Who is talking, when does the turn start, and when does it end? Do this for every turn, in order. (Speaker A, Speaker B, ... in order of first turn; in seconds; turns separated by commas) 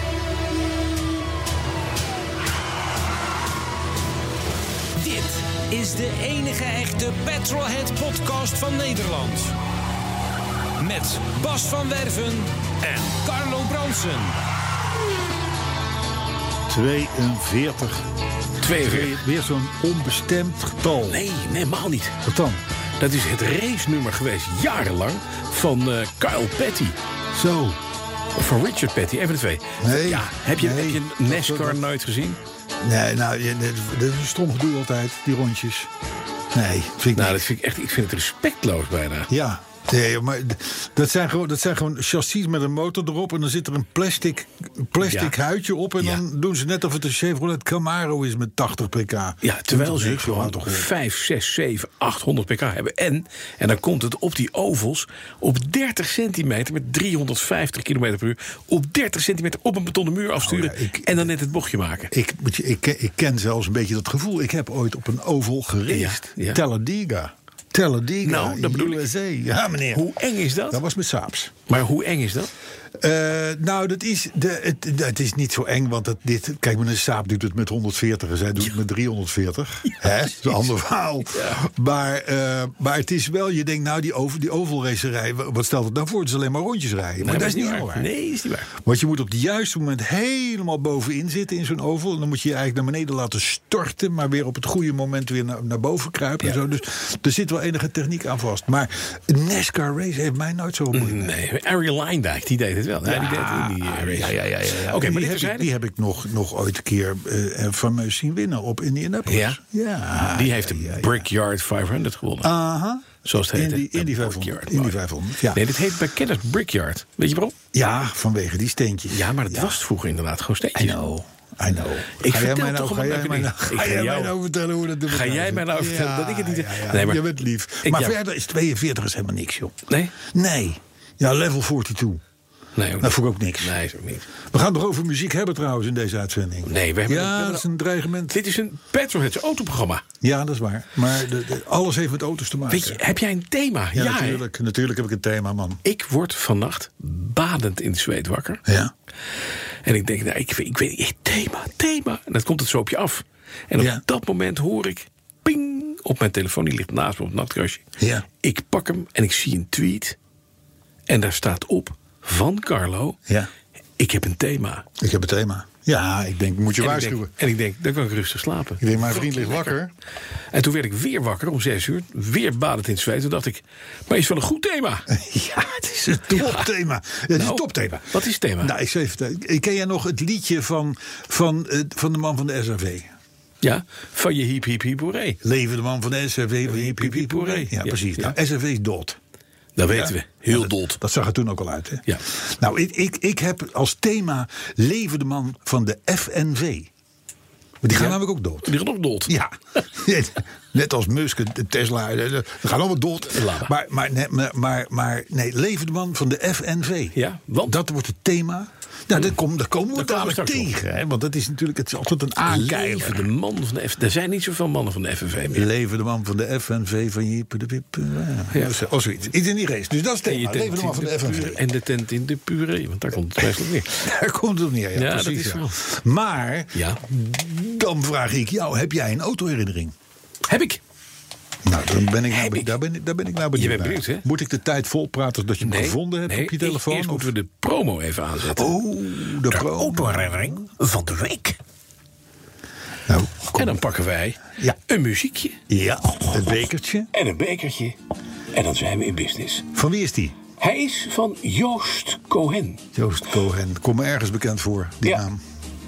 Speaker A: 5.0-9.6, Speaker A: 10.8-14.4, Speaker B: 16.7-18.1, Speaker C: 18.6-19.2, Speaker B: 18.8-21.2, Speaker C: 21.1-22.2, Speaker B: 22.2-22.6, Speaker C: 23.0-27.0, Speaker B: 27.3-27.8, Speaker C: 28.4-32.4, Speaker B: 29.8-31.8, Speaker B: 32.8-35.9, Speaker B: 36.5-37.5, Speaker C: 37.1-39.3, Speaker B: 39.3-50.9, Speaker C: 45.0-45.3, Speaker C: 49.4-62.1, Speaker B: 60.4-61.3, Speaker B: 62.1-70.1, Speaker C: 65.9-66.6, Speaker C: 68.2-69.1, Speaker C: 69.9-70.8, Speaker B: 70.7-71.6, Speaker C: 71.7-72.5, Speaker B: 73.0-88.1, Speaker C: 81.3-81.6, Speaker C: 87.2-88.7, Speaker B: 88.8-101.3, Speaker C: 100.9-105.7, Speaker B: 103.0-111.2, Speaker C: 109.3-109.6, Speaker C: 110.3-112.5, Speaker B: 112.4-115.6, Speaker C: 113.2-115.0, Speaker C: 115.5-117.6, Speaker B: 117.7-119.8, Speaker C: 119.1-121.0, Speaker B: 120.7-132.2, Speaker C: 122.2-124.3, Speaker C: 125.1-127.2, Speaker C: 127.8-128.2, Speaker C: 129.9-130.1, Speaker C: 132.8-134.3, Speaker B: 133.0-133.8, Speaker B: 134.4-138.4, Speaker C: 136.7-137.7, Speaker C: 138.3-140.0, Speaker B: 140.2-143.0, Speaker C: 142.7-144.4, Speaker B: 143.9-145.8, Speaker C: 145.8-148.6, Speaker B: 148.7-148.9, Speaker C: 149.8-157.8, Speaker B: 158.0-158.3, Speaker C: 158.4-160.2, Speaker C: 161.1-163.2, Speaker C: 164.0-164.9, Speaker B: 165.0-167.3, Speaker C: 166.8-169.8, Speaker B: 168.8-169.9, Speaker C: 170.5-175.1, Speaker B: 175.1-183.1, Speaker C: 176.3-176.7, Speaker C: 177.3-178.7, Speaker C: 183.6-185.4, Speaker B: 185.4-189.2, Speaker C: 186.7-188.4, Speaker C: 189.8-191.0, Speaker B: 189.9-196.9, Speaker B: 197.8-213.3, Speaker C: 197.9-199.3, Speaker C: 203.3-203.7, Speaker C: 207.1-207.8, Speaker C: 209.9-210.7, Speaker C: 212.5-215.7, Speaker B: 215.5-221.6, Speaker C: 220.3-223.9, Speaker B: 223.4-229.9, Speaker C: 224.9-225.8, Speaker C: 226.7-227.0, Speaker C: 230.5-230.8, Speaker B: 231.6-237.3, Speaker C: 232.3-232.7, Speaker C: 233.5-234.3, Speaker C: 235.6-238.8, Speaker B: 238.5-240.6, Speaker C: 239.5-241.6, Speaker B: 243.1-243.8, Speaker C: 243.5-245.6, Speaker B: 245.7-247.1, Speaker C: 247.1-248.0, Speaker C: 248.5-249.7, Speaker B: 249.7-250.3, Speaker C: 250.6-252.8, Speaker B: 252.9-255.4